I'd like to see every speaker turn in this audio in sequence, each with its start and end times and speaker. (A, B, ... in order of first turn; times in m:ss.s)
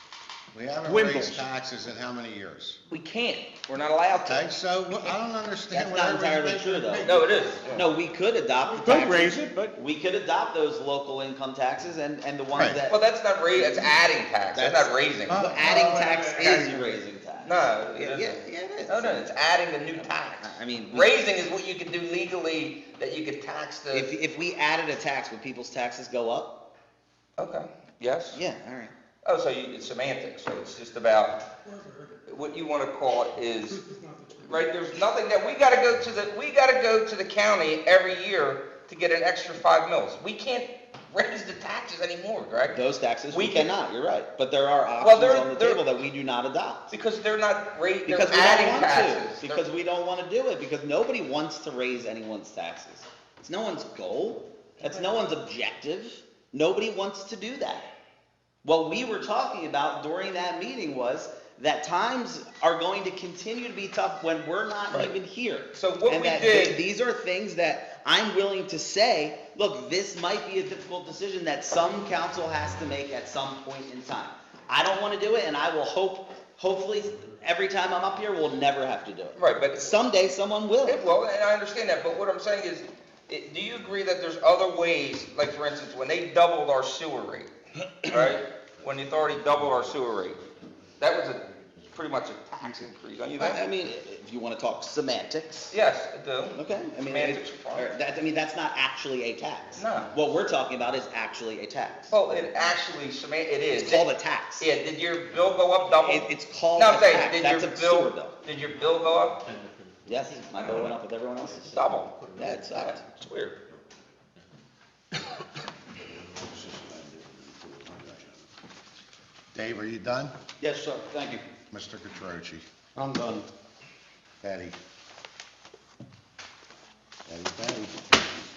0:00.5-0:02.8 A
0:00.8-0:01.4 B
0:02.9-0:04.5 C
0:04.2-0:07.8 A
0:05.7-0:07.1 D
0:07.0-0:07.8 C
0:07.7-0:13.0 D
0:08.7-0:09.8 B
0:12.6-0:12.8 A
0:12.9-0:15.4 C
0:13.6-0:13.9 D
0:14.5-0:19.3 D
0:15.3-0:16.2 A
0:15.9-0:16.6 B
0:16.2-0:24.1 C
0:20.4-0:21.1 D
0:23.9-0:26.6 D
0:27.4-0:28.4 C
0:28.3-0:28.9 D
0:29.2-0:31.5 C
0:32.2-0:33.8 C
0:34.4-0:43.7 C
0:42.7-0:46.9 D
0:45.0-0:45.8 C
0:46.9-0:49.6 C
0:48.0-0:57.9 D
0:58.6-1:21.0 D
1:05.7-1:06.8 C
1:19.4-1:19.9 C
1:20.8-1:27.5 C
1:28.0-1:30.4 C
1:31.0-1:33.6 C
1:33.4-1:35.7 D
1:35.7-1:37.9 C
1:36.5-1:42.2 D
1:39.8-1:40.1 C
1:42.1-1:44.0 C
1:43.7-1:44.7 D
1:44.6-1:49.4 C
1:46.0-1:48.4 D
1:50.0-1:51.8 D
1:51.7-1:52.1 C
1:52.4-1:53.0 D
1:52.7-1:53.6 C
1:59.5-2:00.3 A
2:00.6-2:01.5 D
2:01.7-2:02.6 A
2:03.0-2:03.5 B
2:04.4-2:04.8 A
2:07.3-2:08.1 A